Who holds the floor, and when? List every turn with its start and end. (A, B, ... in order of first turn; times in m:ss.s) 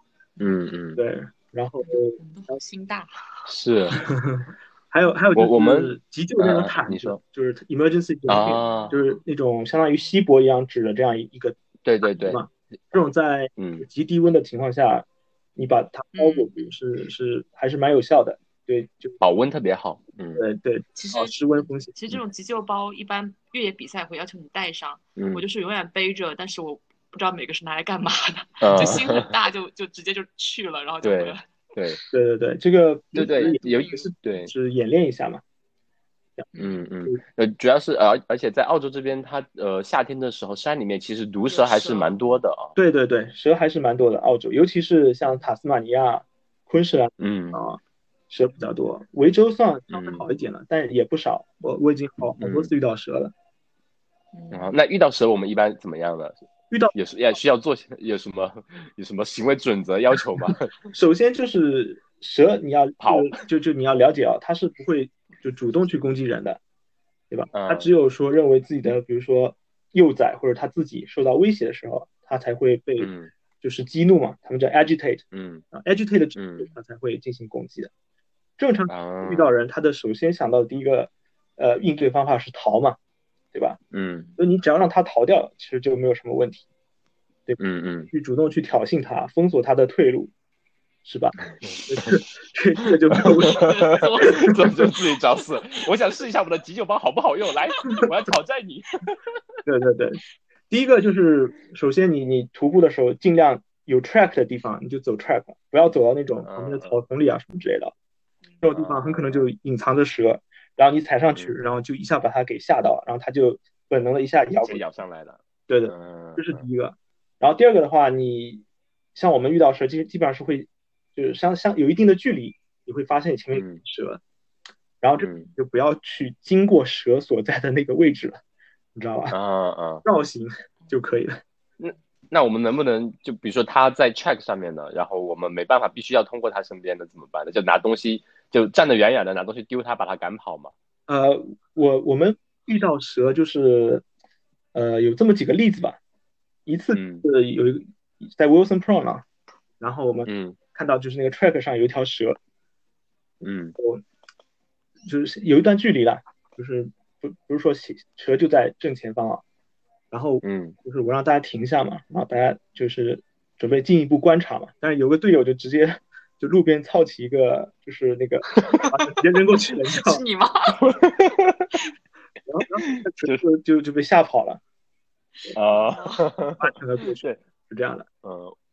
0:00.4-0:01.0 A
0:01.0-0:02.6 B
0:01.8-0:04.0 C
0:03.5-0:04.0 A
0:04.0-0:11.6 B
0:05.4-0:07.2 A
0:08.3-0:09.0 A
0:11.8-0:12.4 A
0:12.2-0:19.2 B
0:13.6-0:13.9 A
0:16.1-0:16.7 C
0:19.2-0:20.4 A
0:20.4-0:21.9 B
0:20.9-0:32.1 C
0:25.2-0:25.4 A
0:28.6-0:29.3 A
0:31.0-0:32.0 A
0:32.1-0:35.4 B
0:33.1-0:34.5 A
0:33.2-0:34.1 C
0:36.5-0:36.8 C
0:36.6-0:42.7 A
0:41.4-0:42.4 C
0:42.8-0:53.3 B
0:47.2-0:47.6 A
0:49.9-0:50.3 A
0:52.4-0:52.7 A
0:54.3-0:54.7 C
0:54.5-1:00.7 A
1:00.9-1:06.6 B
1:03.0-1:03.3 A
1:07.3-1:17.9 B
1:07.5-1:07.9 A
1:13.0-1:13.3 A
1:15.3-1:15.6 A
1:16.4-1:16.7 A
1:18.6-1:23.0 B
1:18.9-1:19.5 A
1:23.5-1:23.8 B
1:23.9-1:24.3 A
1:24.4-1:26.6 B
1:27.6-1:28.1 A
1:28.1-1:30.3 B
1:31.0-1:34.6 B
1:31.6-1:32.2 A
1:33.2-1:35.6 C
1:33.5-1:39.2 A
1:39.6-1:40.2 B
1:40.7-1:47.9 B
1:46.4-1:47.0 A
1:48.6-1:54.8 B
1:48.7-1:49.4 A
1:54.6-1:56.6 A
1:55.7-1:58.6 B
1:59.1-2:04.2 B
2:03.5-2:03.8 A
2:05.0-2:08.4 B
2:05.2-2:05.5 A
2:09.0-2:09.4 B
2:09.3-2:10.0 A
2:10.0-2:11.4 B
2:11.8-2:20.7 A
2:21.1-2:24.0 B
2:24.7-2:26.0 B
2:26.6-2:29.2 B
2:26.9-2:27.3 A
2:29.8-2:32.4 B
2:30.3-2:30.6 A
2:33.4-2:33.7 A
2:33.8-2:34.0 B
2:35.0-2:39.4 B
2:40.1-2:50.2 B
2:40.4-2:40.8 A
2:49.6-2:50.8 C
2:50.8-2:51.7 A
2:52.5-2:54.6 B
2:52.8-2:53.4 A
2:55.4-2:56.3 C
2:55.5-2:57.4 A
2:56.6-2:58.0 B
2:58.2-2:58.6 A